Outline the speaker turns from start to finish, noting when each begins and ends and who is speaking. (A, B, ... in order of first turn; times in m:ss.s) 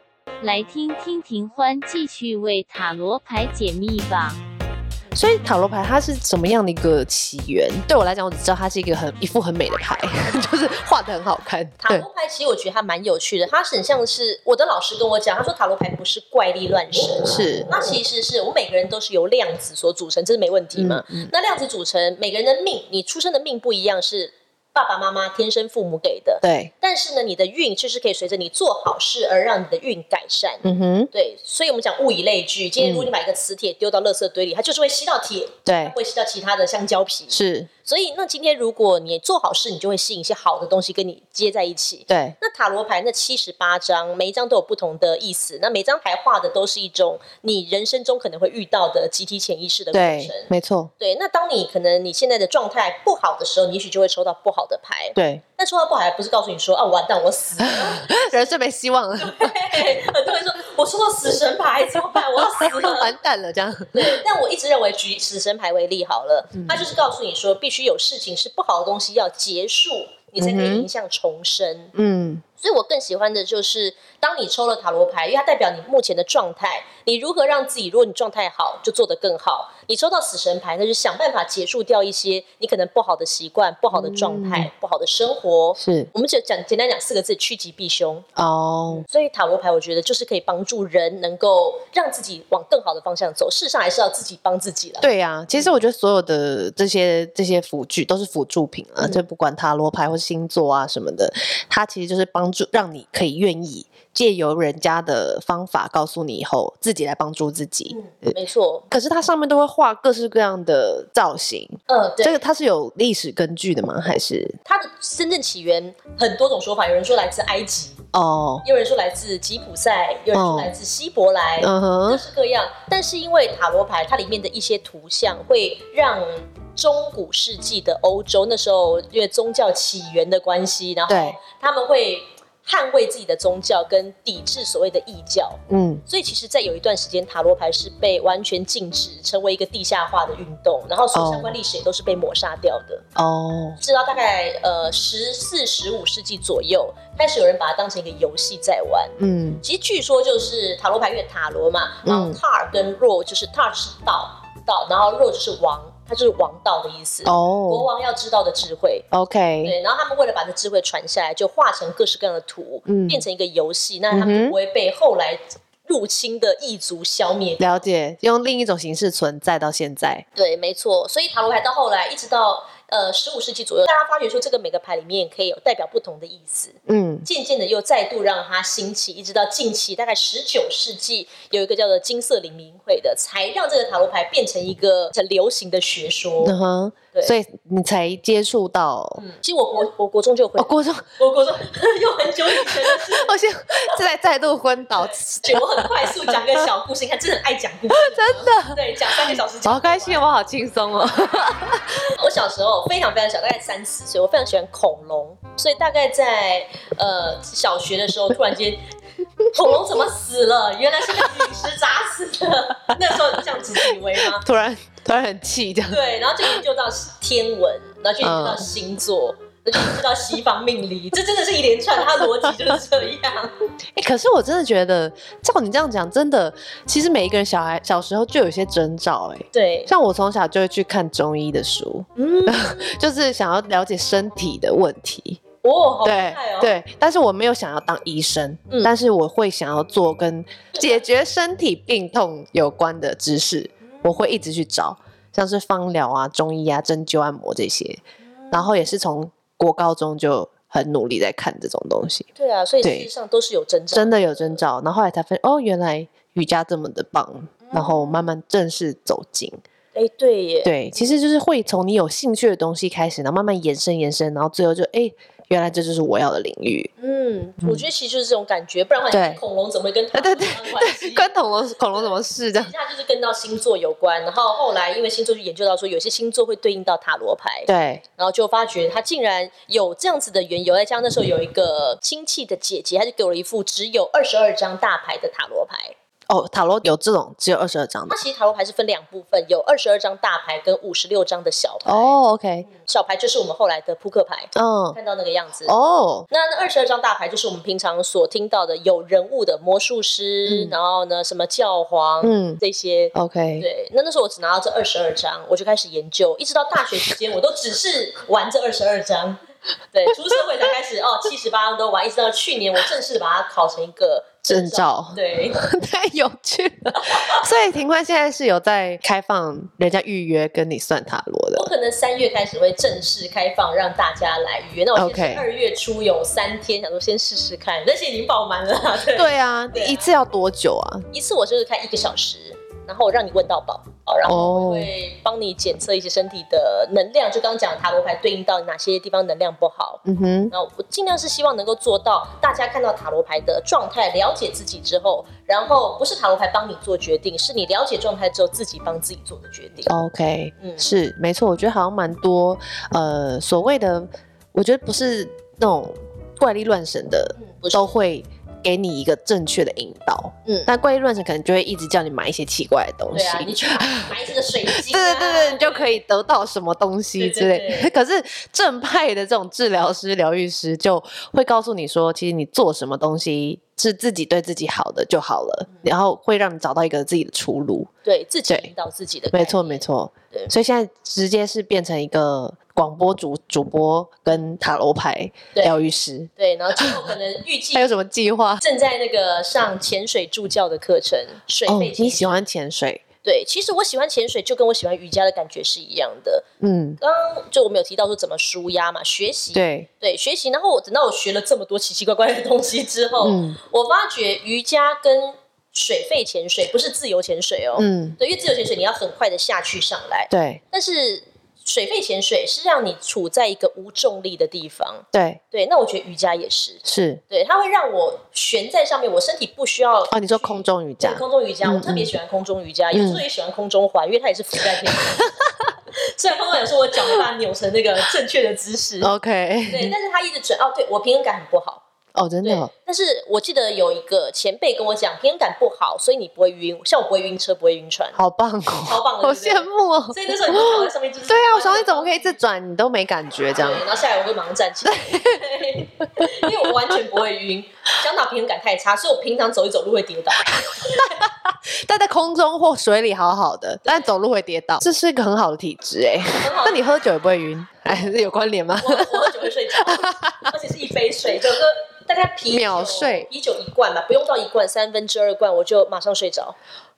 0:00.4-0:04.4 A
0:05.1-0:12.0 B
0:11.8-0:58.6 C
0:17.3-0:17.7 B
0:20.8-0:21.3 B
0:26.4-0:26.7 B
0:30.6-0:31.1 B
0:32.8-0:33.1 B
0:35.6-0:36.0 B
0:37.3-0:37.7 B
0:42.1-0:42.4 B
0:49.9-0:50.9 B
0:55.2-0:55.4 B
0:57.6-1:00.0 B
0:59.2-1:03.1 C
1:02.1-1:04.2 B
1:03.9-1:11.9 C
1:06.5-1:06.8 B
1:10.4-1:10.9 B
1:11.9-1:12.4 B
1:12.6-1:28.2 C
1:23.9-1:24.7 B
1:25.8-1:26.1 B
1:28.4-1:29.0 B
1:28.9-1:35.7 C
1:35.0-1:48.4 B
1:47.9-1:48.9 C
1:48.9-1:54.6 B
1:51.9-1:52.4 C
1:54.6-1:58.0 C
1:58.1-1:58.6 B
1:58.6-2:23.0 C
2:00.3-2:00.7 B
2:01.6-2:02.2 B
2:11.1-2:11.4 B
2:15.7-2:16.0 B
2:21.1-2:21.6 B
2:23.2-2:23.8 B
2:23.8-2:39.0 C
2:29.2-2:29.6 B
2:32.0-2:32.4 B
2:37.2-2:37.9 B
2:39.1-2:39.7 B
2:39.6-2:47.8 C
2:42.8-2:43.2 B
2:44.1-2:44.5 B
2:47.6-2:50.2 B
2:50.4-3:06.6 C
2:56.8-2:57.3 B
3:06.4-3:09.2 B
3:09.2-3:14.0 C
3:10.6-3:11.0 B
3:12.6-3:16.6 B
3:15.4-3:20.2 C
3:17.9-3:22.0 B
3:22.0-3:28.8 C
3:29.5-3:34.4 C
3:34.2-3:36.6 B
3:35.9-3:43.5 C
3:38.2-3:38.7 B
3:43.9-3:55.4 B
3:49.5-3:49.9 C
3:52.2-3:52.9 C
3:55.6-3:56.7 C
3:56.0-4:12.3 B
4:00.8-4:01.0 C
4:08.2-4:08.7 C
4:12.4-4:14.6 C
4:12.8-4:13.1 B
4:13.9-4:19.6 B
4:17.6-4:18.3 C
4:19.9-4:21.1 C
4:20.6-4:26.9 B
4:27.0-4:31.3 C
4:29.1-4:29.4 B
4:30.1-4:32.7 B
4:31.9-4:45.9 C
4:37.7-4:38.0 B
4:46.3-4:48.1 B
4:48.1-4:52.1 C
4:51.8-4:52.7 B
4:52.6-4:55.8 C
4:54.5-4:55.0 B
4:55.6-4:56.3 B
4:56.3-5:09.4 C
5:00.4-5:00.8 B
5:02.2-5:02.6 B
5:03.1-5:03.6 B
5:09.9-5:15.6 C
5:14.5-5:21.7 B
5:16.9-5:17.4 C
5:21.6-5:30.1 C
5:24.9-5:25.5 B
5:29.1-5:31.0 B
5:31.1-5:49.9 C
5:34.2-5:34.9 B
5:40.0-5:40.5 B
5:49.9-6:04.1 B
5:50.6-5:50.8 C
5:57.4-5:58.0 C
6:03.1-6:05.9 C
6:04.7-6:17.9 B
6:07.2-6:07.9 C
6:18.0-6:20.5 C
6:19.3-6:27.1 B
6:26.4-6:27.9 C
6:27.7-6:28.6 B
6:28.6-6:32.4 C
6:31.7-6:33.0 B
6:33.2-6:36.4 C
6:36.6-6:37.0 B
6:37.0-7:05.3 C
6:39.5-6:39.9 B
6:43.2-6:43.6 B
6:47.8-6:48.2 B
6:50.3-6:50.6 B
6:55.1-6:55.4 B
6:56.8-6:57.2 B
7:00.1-7:02.1 B
7:02.9-7:03.2 B
7:06.0-7:09.1 C
7:09.0-7:09.9 B
7:09.7-7:11.8 C
7:12.1-7:12.7 B
7:12.4-7:18.2 C
7:18.1-7:23.8 B
7:18.8-7:22.4 C
7:23.5-7:31.1 C
7:24.8-7:25.4 B
7:26.2-7:26.6 B
7:30.9-7:40.5 B
7:36.4-7:36.8 C
7:38.8-7:46.6 C
7:42.5-7:43.3 B